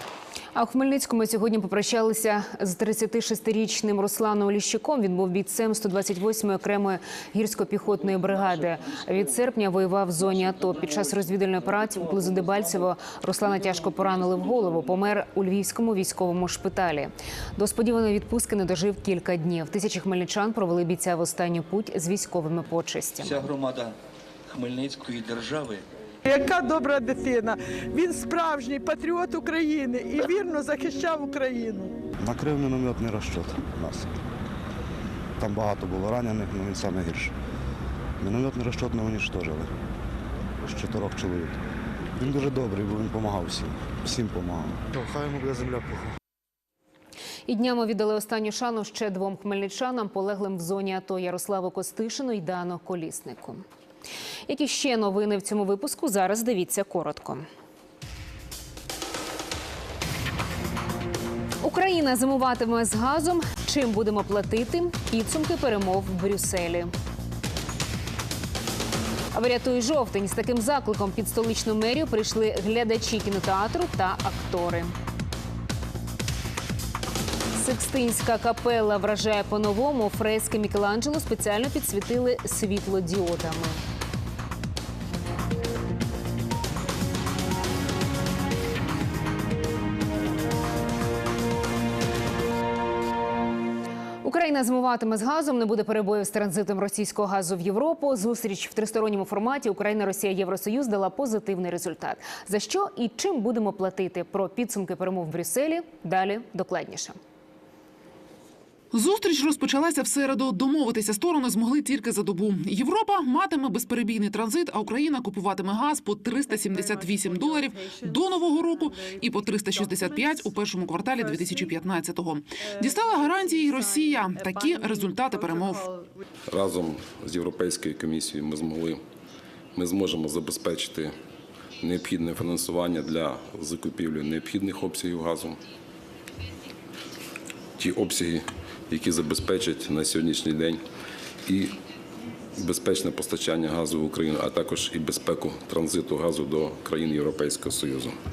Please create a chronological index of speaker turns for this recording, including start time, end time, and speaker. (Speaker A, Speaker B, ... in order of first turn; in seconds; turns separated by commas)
Speaker A: 0.6-23.4, Speaker B: 23.2-23.9, Speaker B: 24.5-25.8, Speaker C: 26.2-31.9, Speaker D: 32.2-34.1, Speaker D: 35.4-37.3, Speaker D: 38.2-39.7, Speaker D: 40.6-41.6, Speaker D: 42.2-46.1, Speaker A: 47.5-53.6, Speaker A: 54.5-57.5, Speaker A: 61.6-66.9, Speaker A: 69.3-74.9, Speaker A: 77.5-83.8, Speaker A: 94.2-107.2, Speaker E: 108.9-125.9, Speaker F: 126.5-129.0, Speaker F: 129.8-131.2, Speaker F: 131.8-135.6, Speaker F: 137.8-140.8, Speaker F: 141.5-141.8, Speaker F: 142.6-148.2